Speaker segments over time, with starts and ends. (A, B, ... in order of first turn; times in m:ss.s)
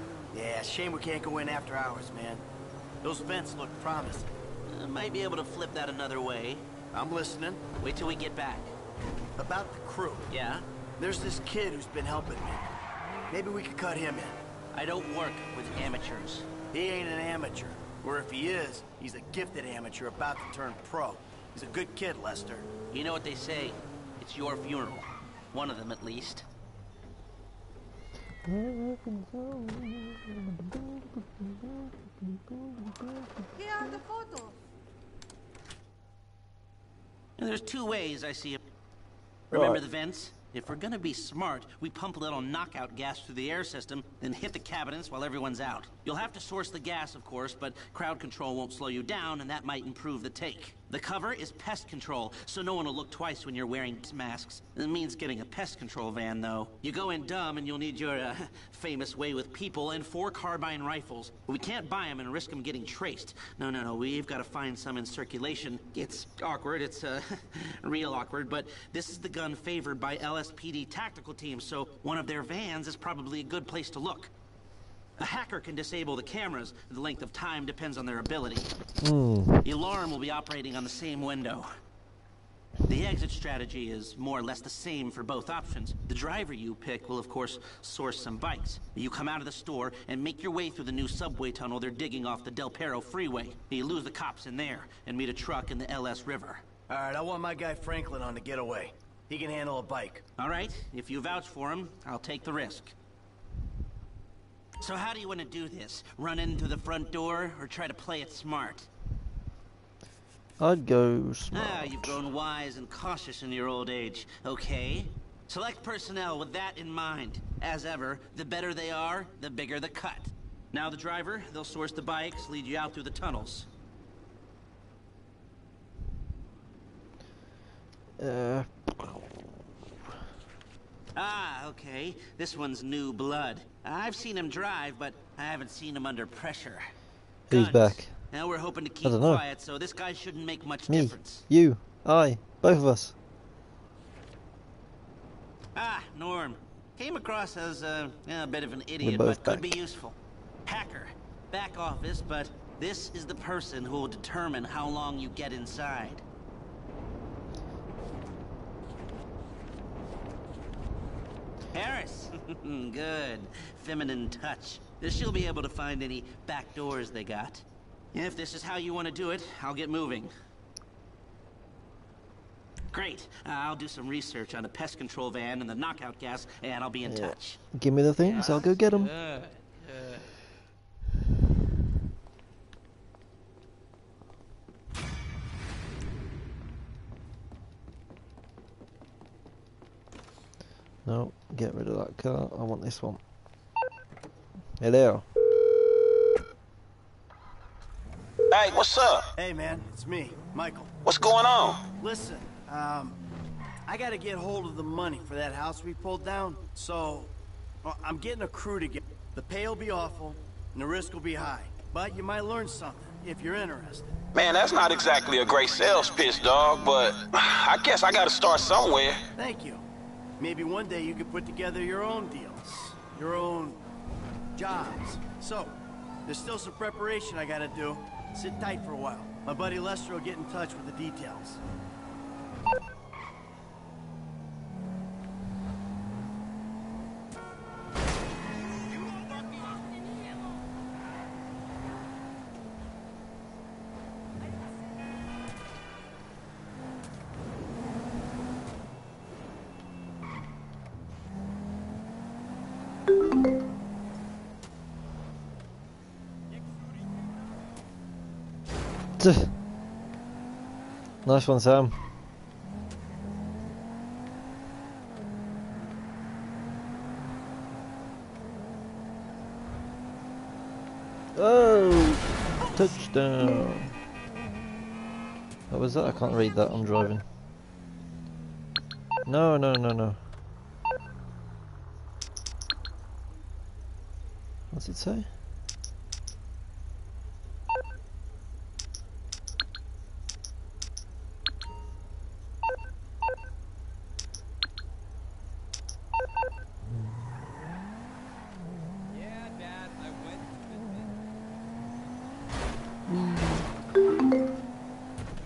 0:00.3-0:02.4 A
0:03.0-0:04.3 A
0:04.7-0:06.6 B
0:06.9-0:07.6 A
0:07.8-0:08.7 B
0:09.4-0:10.3 A
0:10.3-0:10.6 B
0:11.0-0:12.6 A
0:13.3-0:14.4 A
0:14.7-0:16.4 B
0:16.7-0:22.7 A
0:22.9-0:26.4 B
0:28.4-0:34.0 C
0:33.6-0:34.6 D
0:37.4-0:38.6 B
0:39.5-1:14.3 B
0:39.5-0:39.8 C
1:15.2-1:18.7 B
1:19.0-1:19.7 C
1:19.6-1:21.7 B
1:22.8-1:36.6 B
1:36.9-1:40.2 A
1:40.4-1:42.9 B
1:44.8-1:48.9 B
1:50.6-1:52.2 C
1:51.5-2:03.7 B
2:08.2-2:09.2 C
2:11.1-2:16.9 B
2:17.5-2:18.2 C
2:17.5-2:21.4 B
2:19.0-2:19.4 C
2:20.9-2:23.1 C
2:25.7-2:36.2 B
2:29.0-2:29.8 C
2:41.7-2:50.3 B
2:52.9-2:57.6 B
2:57.0-2:59.1 C
2:58.2-2:59.6 B
3:11.0-3:13.2 C
3:14.8-3:15.2 C
3:18.5-3:19.2 E
3:19.4-3:20.9 A
3:21.0-3:21.8 E
3:22.0-3:23.2 A
3:23.9-3:34.1 A
3:34.3-3:39.2 E
3:39.4-3:39.8 A
3:40.4-3:43.8 A
3:44.6-3:51.6 A
3:59.0-4:00.6 D
4:19.2-4:19.5 C
4:21.2-4:22.0 C
4:31.4-4:33.9 C
4:35.7-4:37.2 C
4:39.3-4:40.2 C
4:44.7-4:45.3 C
4:59.1-5:01.2 F
5:03.1-5:03.7 C